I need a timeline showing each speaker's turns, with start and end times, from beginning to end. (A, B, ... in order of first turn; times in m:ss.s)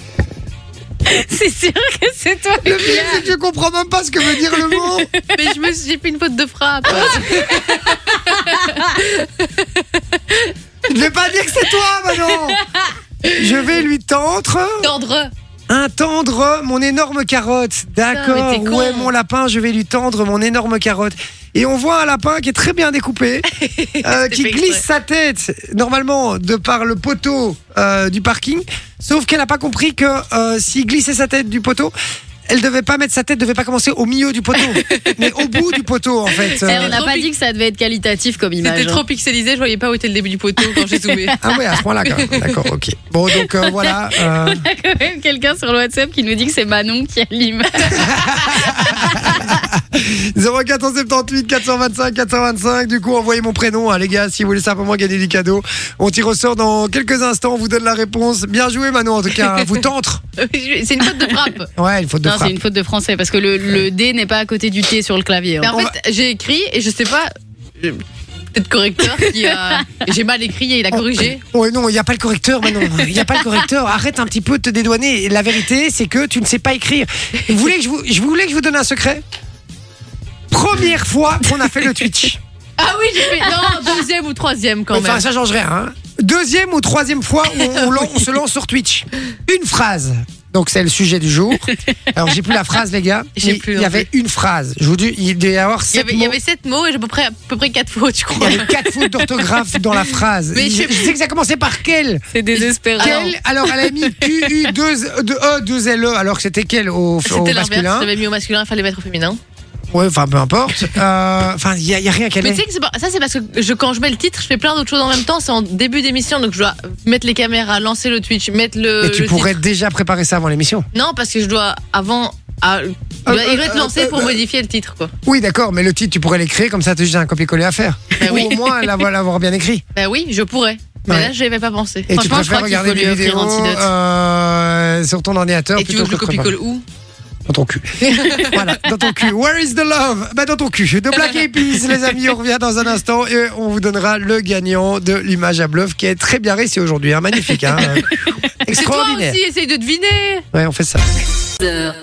0:01.0-0:03.3 A
0:02.6-0:05.1 B
0:04.4-0:05.4 A
0:05.3-0:10.6 C
0:06.9-0:07.8 A
0:07.0-0:07.4 B
0:08.4-0:09.0 A
0:10.9-0:12.6 B
0:13.2-0:13.7 C
0:13.3-0:14.9 B
0:14.8-0:15.3 C
0:15.7-0:23.5 B
0:18.1-0:19.1 C
0:23.5-0:24.8 C
0:24.0-0:31.9 B
0:32.5-0:37.0 B
0:34.7-0:35.4 C
0:36.3-0:37.3 C
0:36.7-0:39.0 A
0:38.6-0:41.4 C
0:40.8-0:41.7 A
0:41.4-0:44.7 B
0:42.3-0:42.6 C
0:43.5-0:49.6 A
0:47.9-1:00.2 B
1:00.4-1:01.7 C
1:01.8-1:02.6 B
1:02.2-1:05.8 A
1:05.6-1:11.4 C
1:09.2-1:10.0 A
1:10.9-1:19.2 B
1:20.5-1:22.4 B
1:22.8-1:25.2 C
1:24.9-1:36.4 B
1:27.5-1:28.3 C
1:33.4-1:34.1 C
1:35.9-1:41.2 C
1:38.4-1:42.2 B
1:42.3-1:43.3 A
1:42.5-1:44.7 C
1:43.0-1:48.1 B
1:47.2-1:49.4 C
1:49.9-1:52.6 B
1:52.4-1:59.6 C
1:59.0-2:00.9 B
2:00.9-2:05.1 C
2:03.3-2:04.4 B
2:05.2-2:09.8 B
2:08.2-2:08.6 C
2:10.0-2:12.1 C
2:12.1-2:16.6 B
2:12.1-2:13.9 A
2:15.8-2:16.8 C
2:17.5-2:28.1 B
2:18.0-2:18.6 C
2:28.6-2:29.4 B
2:28.7-2:30.5 C
2:30.5-2:31.1 B